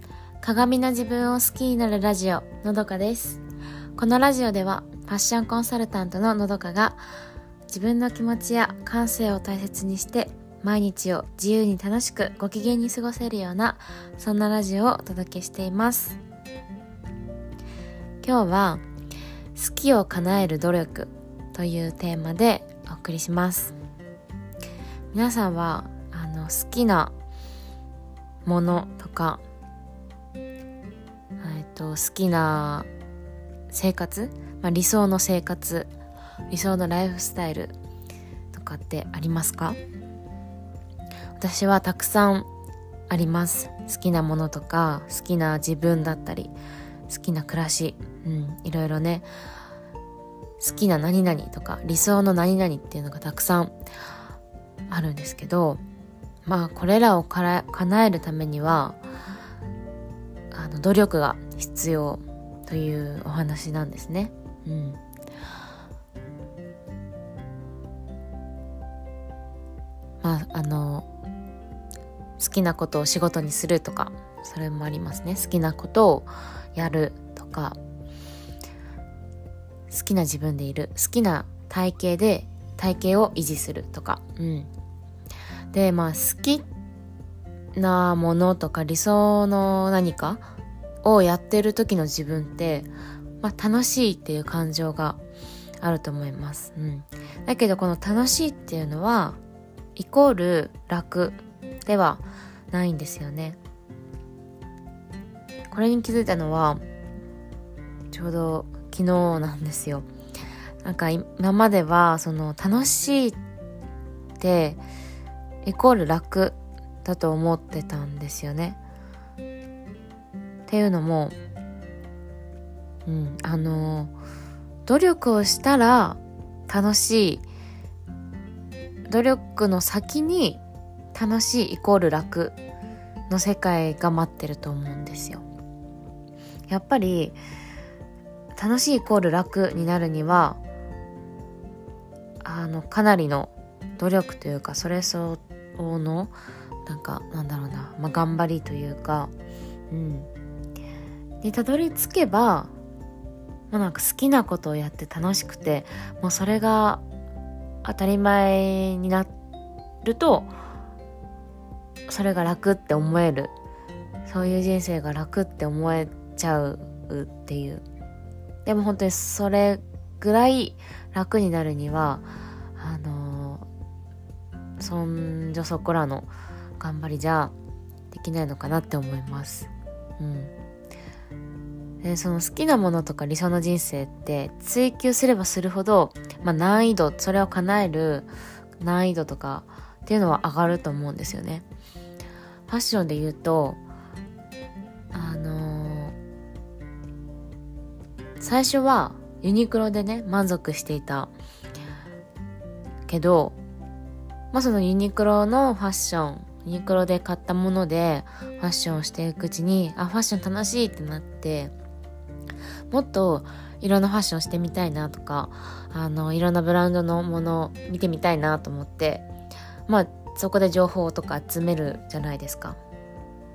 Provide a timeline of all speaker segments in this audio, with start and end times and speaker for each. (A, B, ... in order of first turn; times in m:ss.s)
0:00.4-0:03.4 A
0:04.0-0:07.0 A
0:07.7-0:16.2 A
0:18.2-0:18.8 A
0:19.6-0:23.8 A
0:25.1-0:27.1 A
0:28.4-0:29.4 A
0:31.4-0:32.9 A
0:33.7-0:35.9 A
0:36.5-0:37.8 A
0:38.5-0:39.8 A
0:41.4-0:42.5 A
0:43.1-0:46.6 A
0:47.1-0:49.3 A
0:50.6-0:53.8 A
0:54.9-0:55.8 A
0:56.5-0:59.0 A
1:00.5-1:05.0 A
1:10.2-1:11.1 A
1:12.4-1:17.8 A
1:19.9-1:24.7 A
1:25.7-1:26.6 A
1:27.8-1:30.4 A
1:31.0-1:32.9 A
1:33.4-1:35.2 A
1:35.8-1:39.4 A
1:40.0-1:43.6 A
1:45.7-1:46.8 A
1:48.1-1:50.1 A
1:50.8-1:53.4 A
1:54.4-1:54.8 A
1:55.6-1:58.8 A
2:00.7-2:01.4 A
2:03.1-2:04.1 A
2:04.9-2:07.4 A
2:09.1-2:10.6 A
2:11.1-2:12.6 A
2:13.3-2:15.4 A
2:16.7-2:17.4 A
2:18.6-2:20.6 A
2:22.4-2:29.3 A
2:29.9-2:30.3 A
2:31.4-2:32.7 A
2:33.7-2:37.0 A
2:37.8-2:39.3 A
2:40.0-2:40.5 A
2:42.1-2:43.5 A
2:44.2-2:47.8 A
2:48.6-2:53.7 A
2:54.8-2:57.5 A
2:58.1-3:00.5 A
3:02.0-3:11.7 A
3:12.7-3:13.8 A
3:15.1-3:16.2 A
3:18.4-3:21.3 A
3:23.1-3:23.6 A
3:24.5-3:31.7 A
3:32.9-3:39.3 A
3:39.9-3:42.8 A